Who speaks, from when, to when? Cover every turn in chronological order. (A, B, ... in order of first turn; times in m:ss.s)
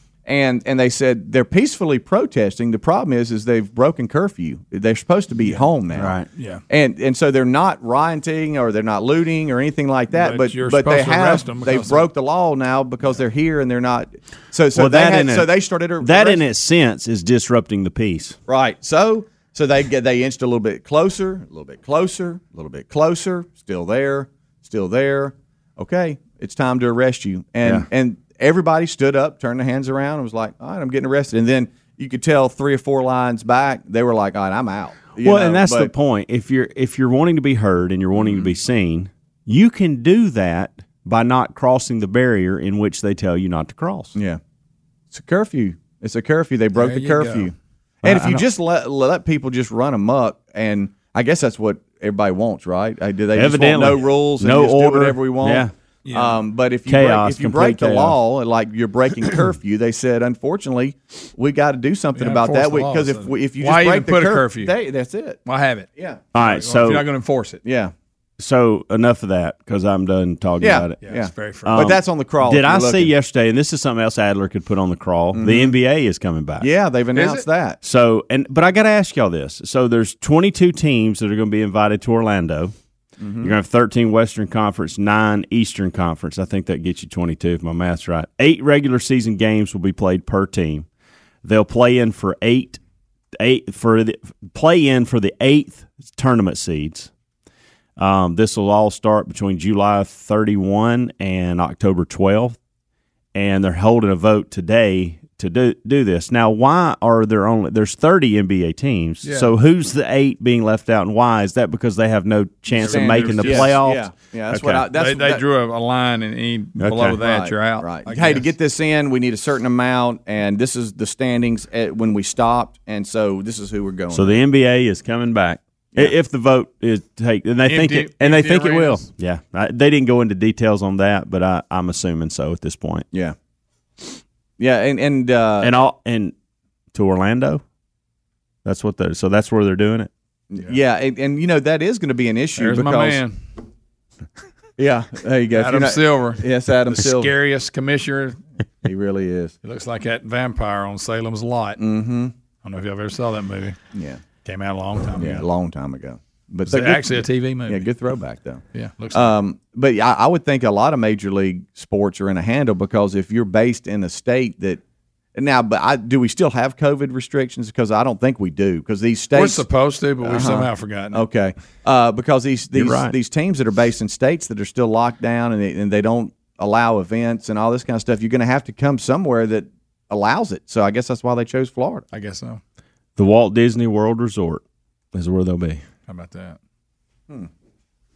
0:00.3-0:06.2 A
0:05.9-0:06.3 B
0:06.3-0:06.6 C
0:06.7-0:16.4 A
0:10.1-0:12.1 C
0:14.8-0:18.4 B
0:18.5-0:35.9 A
0:35.2-0:44.2 B
0:38.2-0:38.5 A
0:44.2-0:44.4 A
0:45.1-1:05.4 A
0:46.8-0:47.5 C
0:48.0-0:48.4 B
0:53.3-0:55.7 B
0:56.0-0:56.4 C
0:56.9-0:58.2 B
1:02.2-1:04.7 C
1:05.4-1:07.6 C
1:06.3-1:07.1 B
1:07.6-1:07.9 A
1:08.4-1:11.0 B
1:10.6-1:13.1 A
1:11.0-1:11.8 C
1:11.6-1:16.7 B
1:15.3-1:15.8 A
1:16.6-1:17.8 A
1:17.2-1:17.4 C
1:17.8-1:22.7 B
1:23.2-1:23.6 A
1:23.4-1:30.9 B
1:31.4-1:32.8 B
1:33.4-1:37.1 B
1:38.0-1:42.6 B
1:43.3-1:54.8 B
1:49.2-1:49.5 C
1:52.7-1:53.8 C
1:52.8-1:55.4 A
1:54.9-1:58.4 C
1:56.8-1:57.2 B
1:57.2-2:04.4 A
2:04.1-2:13.1 B
2:07.7-2:09.1 C
2:14.6-2:15.7 A
2:15.6-2:16.3 B
2:16.9-2:17.6 B
2:18.6-2:20.1 B
2:20.5-2:23.2 A
2:22.6-2:23.4 C
2:24.8-2:27.3 A
2:25.5-2:28.4 C
2:28.8-2:29.5 A
2:29.6-2:31.8 C
2:31.8-2:32.3 A
2:32.6-2:33.8 C
2:33.9-2:34.2 A
2:34.4-2:35.4 C
2:35.2-2:44.8 A
2:36.7-2:37.9 C
2:38.7-2:39.3 C
2:45.4-2:49.6 A
2:49.4-2:51.2 C
2:50.2-3:02.0 A
2:52.7-2:53.1 B
3:02.1-3:02.6 C
3:03.2-3:04.6 B
3:05.1-3:05.8 B
3:06.1-3:06.6 C